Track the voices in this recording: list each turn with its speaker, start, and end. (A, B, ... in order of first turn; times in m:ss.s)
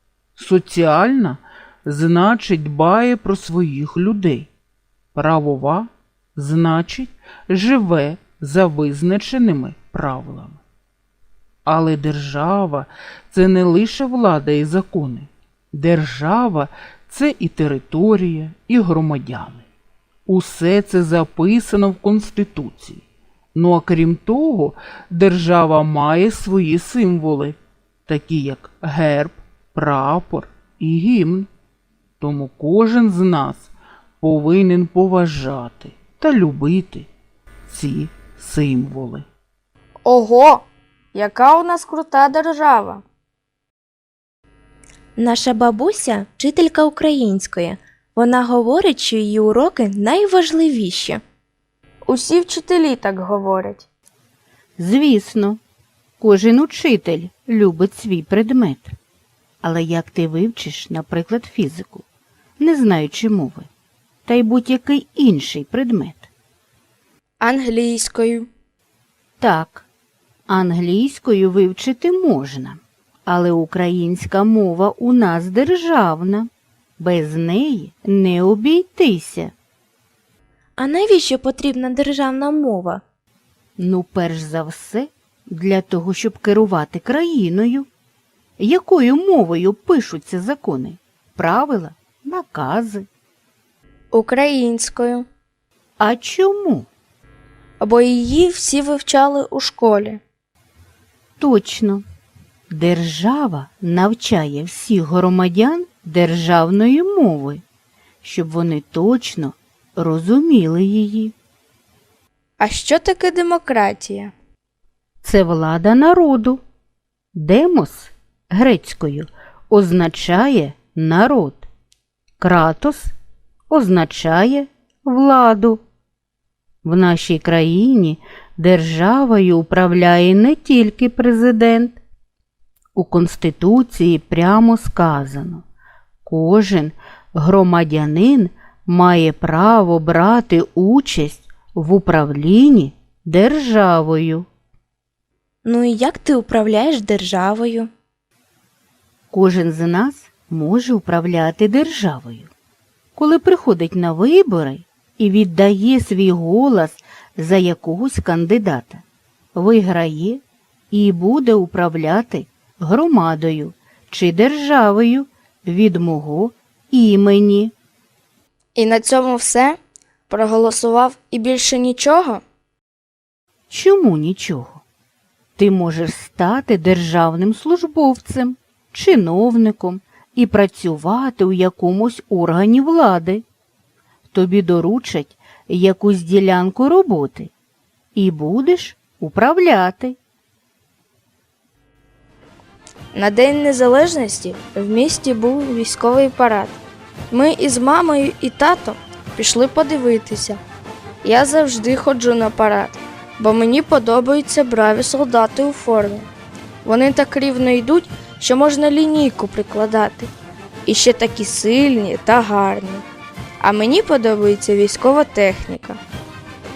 0:00.4-0:04.5 A
0:05.1-0:10.6 A
0:11.7-0:19.6 A
0:20.3-0:23.0 A
0:23.6-0:27.6 A
0:28.1-0:31.5 A
0:32.2-0:33.7 A
0:34.2-0:37.1 A
0:37.7-0:39.3 A
0:40.0-0:43.0 B
0:45.2-0:51.2 C
0:52.1-0:53.9 B
0:54.8-0:55.6 D
0:56.2-0:59.0 D
0:59.6-1:02.0 D
1:02.6-1:03.7 D
1:04.3-1:06.3 D
1:07.4-1:08.5 B
1:09.4-1:09.9 D
1:10.5-1:19.5 D
1:20.8-1:23.0 C
1:23.8-1:27.9 D
1:28.6-1:33.1 D
1:34.1-1:35.3 B
1:36.0-1:36.9 D
1:37.8-1:40.2 B
1:41.4-1:42.0 D
1:42.7-1:47.6 D
1:48.2-1:51.3 D
1:52.6-1:54.3 B
1:55.2-1:56.6 D
1:57.3-2:01.7 D
2:02.4-2:03.1 D
2:03.7-2:05.8 D
2:06.8-2:12.0 D
2:13.0-2:15.6 D
2:16.2-2:24.5 D
2:25.6-2:27.9 C
2:29.3-2:32.5 D
2:33.2-2:47.7 D
2:48.8-2:49.8 B
2:50.3-2:52.4 B
2:53.7-2:54.8 D
2:55.6-3:03.4 D
3:04.3-3:07.5 D
3:08.2-3:10.2 D
3:13.1-3:16.8 B
3:17.3-3:20.6 B
3:21.2-3:26.3 B
3:26.8-3:30.3 B
3:30.9-3:33.0 B
3:33.6-3:36.0 B